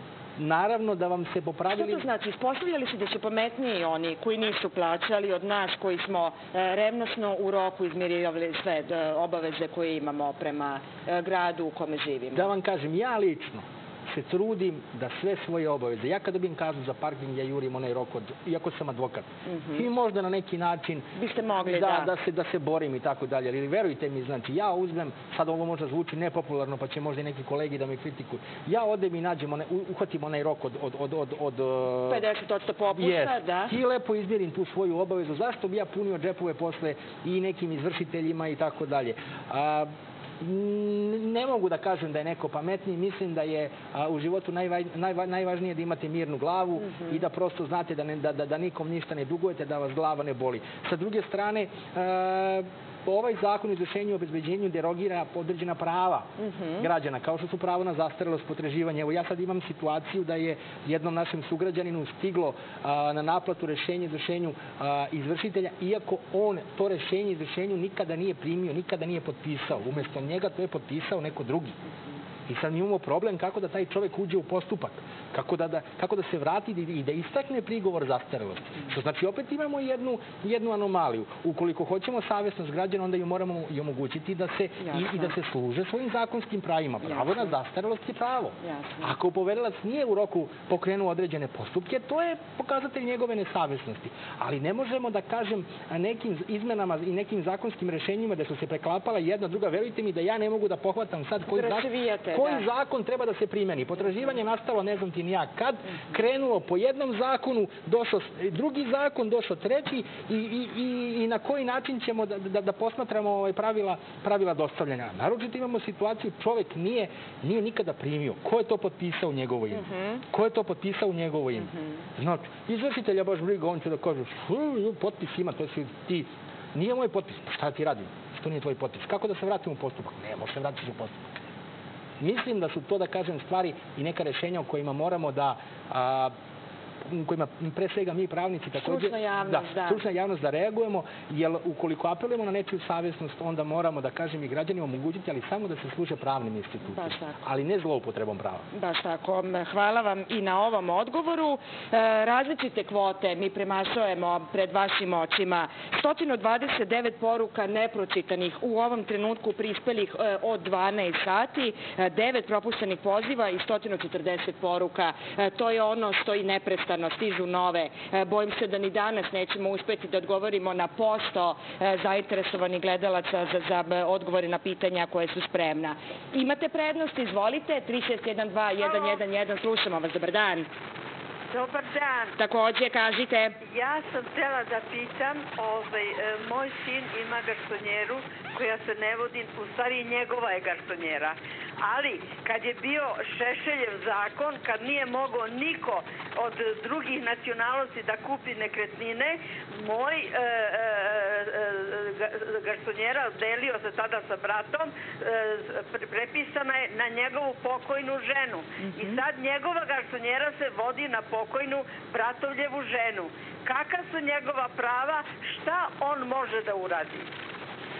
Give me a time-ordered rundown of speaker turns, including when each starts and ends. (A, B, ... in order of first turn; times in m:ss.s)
0:00.4-0:02.0 A
0:01.7-0:12.5 B
0:12.3-0:21.1 A
0:19.5-0:19.8 B
0:21.2-0:22.1 B
0:21.6-0:32.2 A
0:32.1-0:33.7 B
0:32.9-1:11.8 A
0:46.8-0:47.2 B
0:56.4-0:56.9 B
1:12.4-2:11.3 A
1:24.8-1:25.3 B
1:27.0-1:27.5 B
1:28.6-1:29.1 B
1:41.5-1:42.6 B
1:59.7-2:00.2 B
2:12.2-2:16.3 A
2:17.1-2:28.6 A
2:18.8-2:20.0 B
2:26.9-2:27.4 B
2:28.7-3:00.7 B
2:58.8-2:59.2 C
3:01.5-3:02.3 C
3:02.4-3:03.6 B
3:03.6-3:37.3 C
3:28.8-3:29.2 B